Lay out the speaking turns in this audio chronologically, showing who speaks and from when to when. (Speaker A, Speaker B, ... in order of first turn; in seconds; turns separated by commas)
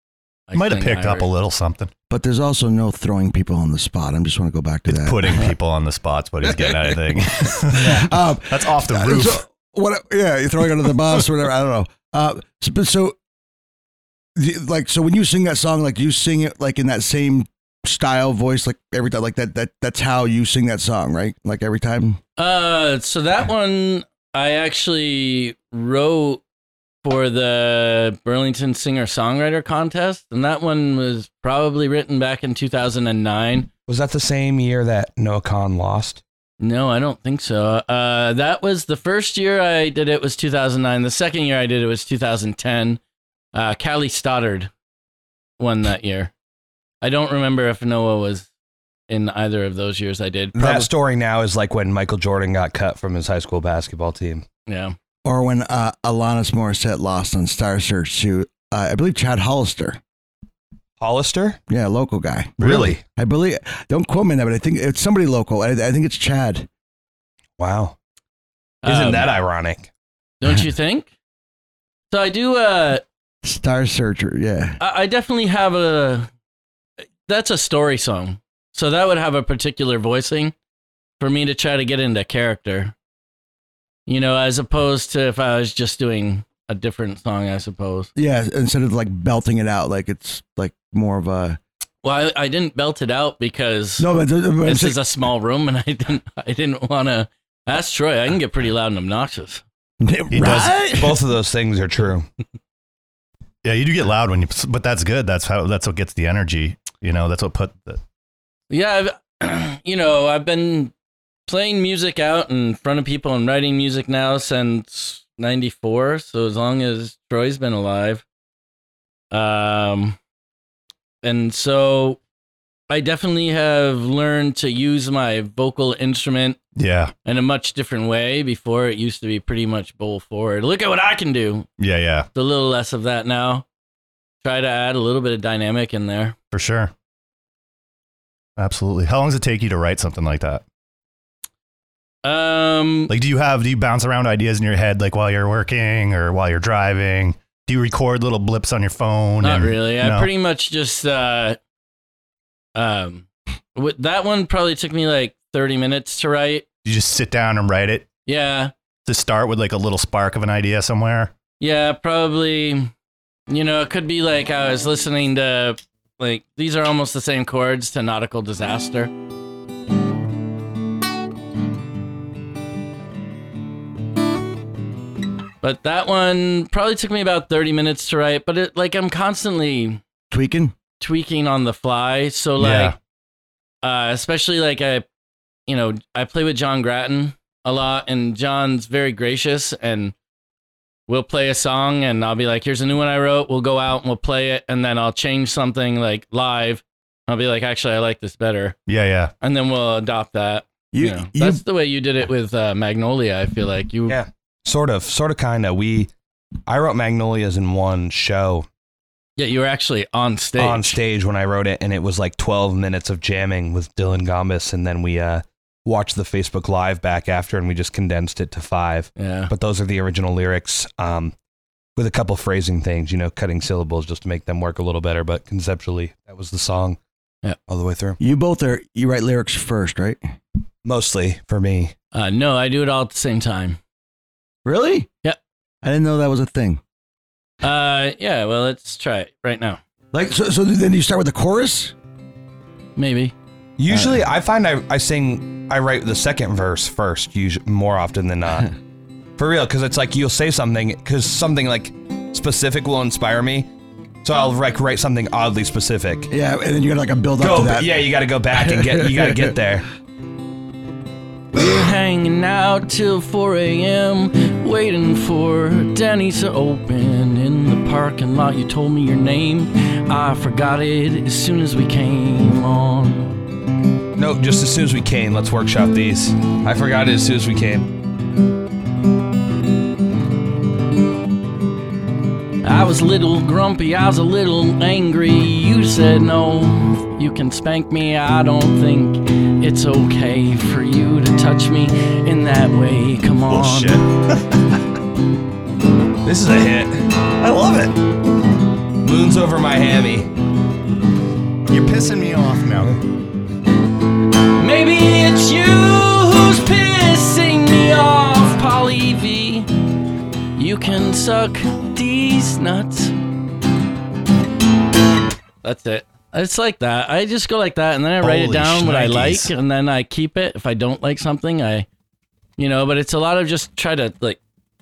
Speaker A: 0.5-1.3, Speaker B: 0.5-1.9, Speaker C: 2.1-5.5, Speaker B: 4.9-9.4, Speaker C: 6.4-13.2, Speaker C: 14.3-22.2, Speaker A: 22.4-26.4, Speaker A: 27.0-33.7, Speaker D: 33.9-36.2, Speaker A: 36.6-43.0, Speaker A: 43.5-44.7, Speaker A: 45.6-46.3, Speaker A: 47.0-48.5, Speaker A: 49.1-50.8, Speaker D: 50.5-54.4, Speaker A: 54.7-55.0, Speaker C: 55.2-60.0, Speaker D: 61.0-61.6, Speaker C: 61.7-66.7, Speaker B: 62.6-62.9, Speaker D: 62.6-63.0, Speaker D: 67.6-68.0, Speaker A: 68.8-69.3, Speaker D: 68.8-69.9, Speaker A: 70.4-71.1, Speaker A: 72.1-73.0, Speaker C: 73.4-74.8, Speaker A: 74.8-76.3, Speaker A: 77.3-80.5, Speaker A: 81.2-82.9, Speaker A: 84.1-88.1, Speaker C: 88.2-91.6, Speaker A: 92.0-94.1, Speaker C: 94.0-95.0, Speaker A: 94.6-99.6, Speaker C: 100.0-101.2, Speaker B: 100.3-100.8, Speaker D: 100.9-102.2, Speaker B: 103.6-108.0, Speaker A: 108.7-110.9, Speaker A: 111.5-118.2, Speaker A: 119.3-120.2, Speaker A: 121.2-122.2, Speaker A: 122.9-126.6, Speaker B: 126.8-127.1, Speaker A: 127.2-131.7, Speaker B: 131.8-132.3, Speaker A: 132.3-133.6, Speaker A: 134.4-136.3, Speaker B: 136.5-136.9, Speaker B: 138.6-140.6, Speaker A: 142.2-143.1, Speaker B: 143.1-150.3, Speaker A: 149.4-151.6, Speaker A: 152.8-156.7, Speaker B: 156.8-158.1, Speaker A: 158.2-158.7, Speaker B: 159.1-161.3, Speaker A: 161.6-162.9, Speaker A: 163.5-169.1, Speaker A: 175.6-180.0, Speaker C: 180.3-180.7, Speaker A: 181.0-182.9, Speaker B: 182.6-182.9, Speaker A: 183.8-185.1, Speaker A: 185.7-190.1, Speaker A: 191.1-198.8, Speaker B: 198.9-199.3, Speaker A: 199.4-204.2, Speaker C: 200.9-201.6, Speaker D: 204.1-206.1, Speaker D: 206.7-208.7, Speaker A: 209.4-211.0, Speaker D: 210.6-221.3, Speaker A: 219.2-219.5, Speaker D: 221.9-227.0, Speaker D: 227.7-228.2, Speaker C: 228.2-230.2, Speaker D: 230.8-231.9, Speaker A: 232.1-233.8, Speaker C: 234.6-235.1, Speaker C: 235.8-236.8, Speaker A: 237.6-239.8, Speaker C: 240.1-241.9, Speaker A: 243.0-243.3, Speaker D: 243.8-248.7, Speaker C: 243.9-244.2, Speaker D: 249.4-253.7, Speaker D: 254.2-256.3, Speaker C: 256.3-259.6, Speaker D: 257.4-259.9, Speaker A: 261.5-273.3, Speaker D: 274.2-277.9, Speaker A: 282.6-294.0, Speaker B: 293.5-294.6, Speaker D: 296.2-297.1, Speaker B: 297.4-297.9, Speaker D: 299.0-300.3, Speaker B: 301.7-302.9, Speaker A: 304.6-309.7, Speaker A: 310.6-313.1, Speaker A: 315.6-321.9, Speaker B: 318.2-319.5, Speaker A: 322.6-324.4